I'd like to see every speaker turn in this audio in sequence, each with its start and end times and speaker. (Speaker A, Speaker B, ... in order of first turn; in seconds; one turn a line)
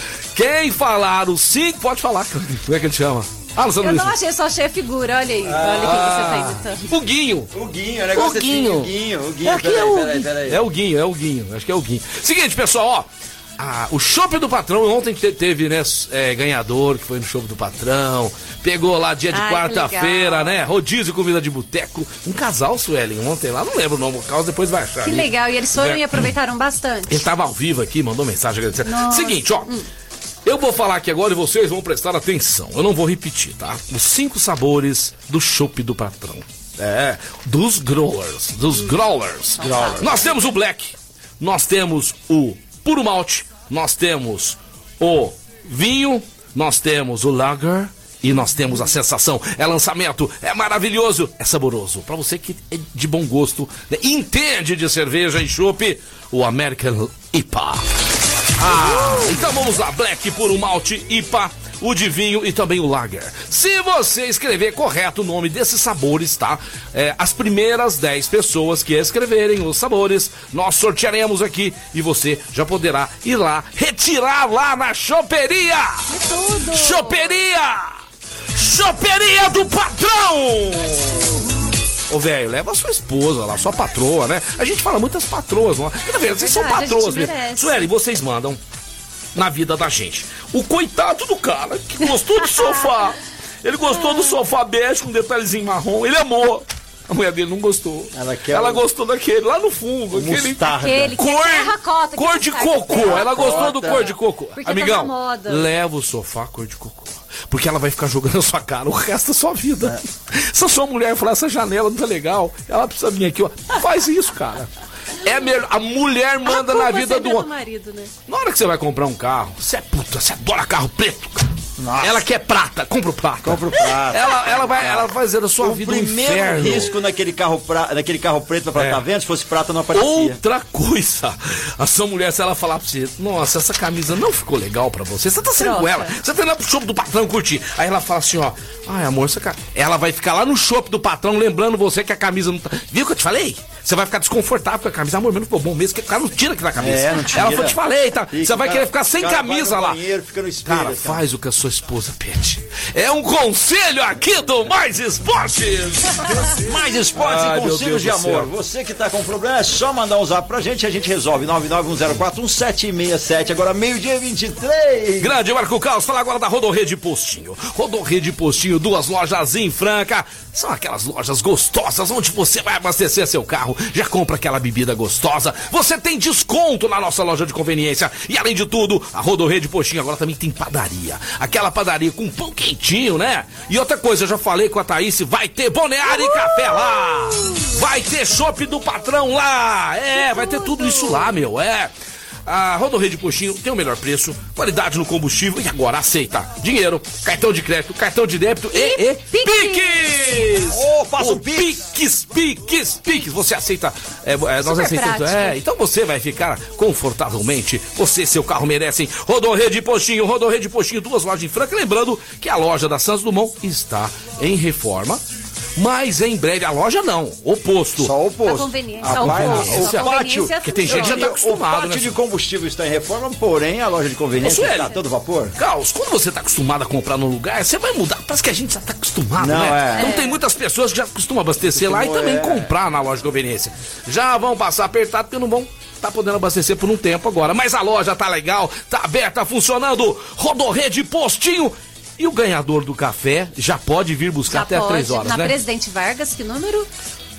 Speaker A: 0.3-4.1
Speaker B: 3.8-6.8
Speaker C: 5.4-6.1
Speaker A: 5.7-7.5
Speaker C: 7.5-10.6
Speaker A: 8.1-8.9
Speaker A: 9.4-13.1
Speaker A: 13.6-26.2
Speaker B: 19.3-20.5
Speaker B: 25.0-27.2
Speaker A: 27.1-29.7
Speaker B: 28.9-29.9
Speaker A: 30.4-57.8
Speaker B: 39.6-40.4
Speaker C: 39.6-40.2
Speaker A: 58.6-76.1
Speaker B: 76.1-77.3
Speaker A: 76.7-78.0
Speaker A: 78.5-81.4
Speaker A: 82.1-88.6
Speaker B: 86.4-87.8
Speaker A: 89.3-117.5
Speaker B: 92.6-92.8
Speaker B: 93.9-94.3
Speaker C: 98.1-98.8
Speaker C: 100.1-101.2
Speaker B: 100.8-105.7
Speaker C: 102.9-104.1
Speaker B: 116.5-118.1
Speaker A: 118.3-121.5
Speaker C: 121.8-122.2
Speaker A: 122.0-126.9
Speaker C: 123.4-130.4
Speaker A: 128.8-129.0
Speaker A: 129.9-150.0
Speaker B: 135.6-136.1
Speaker C: 146.8-147.8
Speaker C: 148.3-151.2
Speaker A: 150.6-156.5
Speaker C: 156.4-165.3
Speaker A: 157.1-158.5
Speaker A: 165.2-191.9
Speaker B: 186.1-187.8
Speaker B: 190.1-191.3
Speaker A: 192.4-215.2
Speaker B: 198.7-199.9
Speaker C: 200.7-201.7
Speaker B: 204.6-205.6
Speaker A: 215.8-218.1
Speaker C: 218.0-225.5
Speaker B: 218.4-221.3
Speaker A: 219.0-222.1
Speaker B: 224.4-225.0
Speaker A: 224.4-224.9
Speaker A: 225.5-245.6
Speaker C: 229.4-230.1
Speaker B: 230.0-230.4
Speaker C: 231.7-232.7
Speaker B: 244.5-246.9